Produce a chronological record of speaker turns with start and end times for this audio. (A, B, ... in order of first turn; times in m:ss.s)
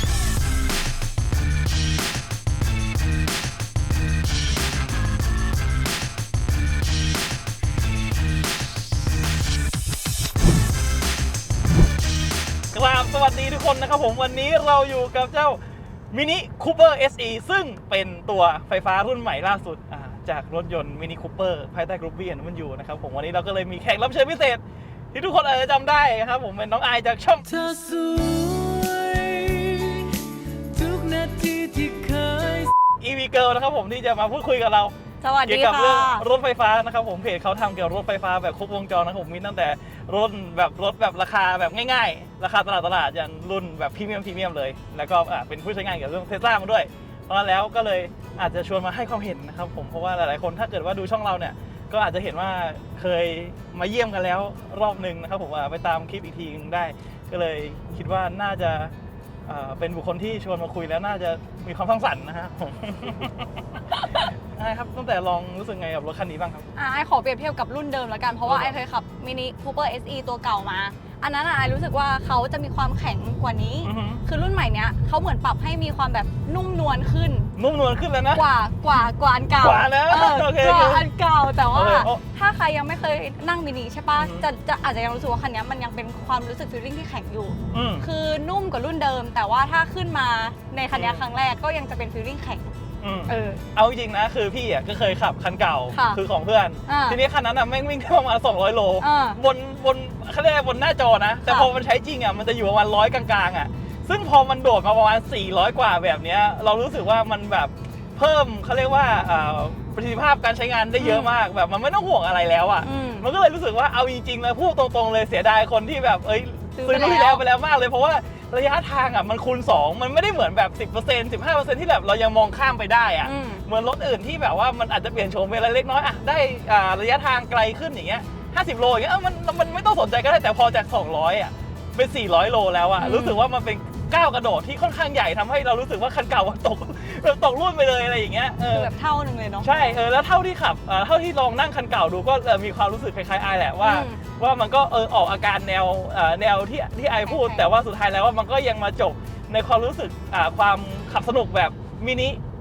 0:12.7-0:15.6 A
0:16.1-0:24.6 A
0:25.1-0:27.5 A
0:27.4-0:32.7 B
0:33.0-0:34.9 A
0:35.2-0:36.2 C
0:35.4-0:58.9 A
0:59.4-1:06.7 A
1:06.8-1:17.5 C
1:08.4-1:08.8 A
1:13.8-1:14.2 A
1:17.6-1:18.4 A
1:18.3-1:32.7 C
1:19.6-1:21.0 A
1:21.7-1:22.2 A
1:24.2-1:24.4 A
1:27.7-1:28.0 A
1:30.9-1:31.2 A
1:33.0-2:18.9 A
1:33.3-1:33.6 C
1:35.9-1:36.2 C
1:36.9-1:37.2 C
1:39.0-1:39.4 C
1:51.0-1:51.3 C
1:52.8-1:53.3 C
1:56.8-1:57.4 C
2:03.2-2:03.6 C
2:13.0-2:13.4 C
2:18.6-2:20.0 C
2:19.6-2:32.4 A
2:23.8-2:24.2 C
2:27.2-2:27.7 C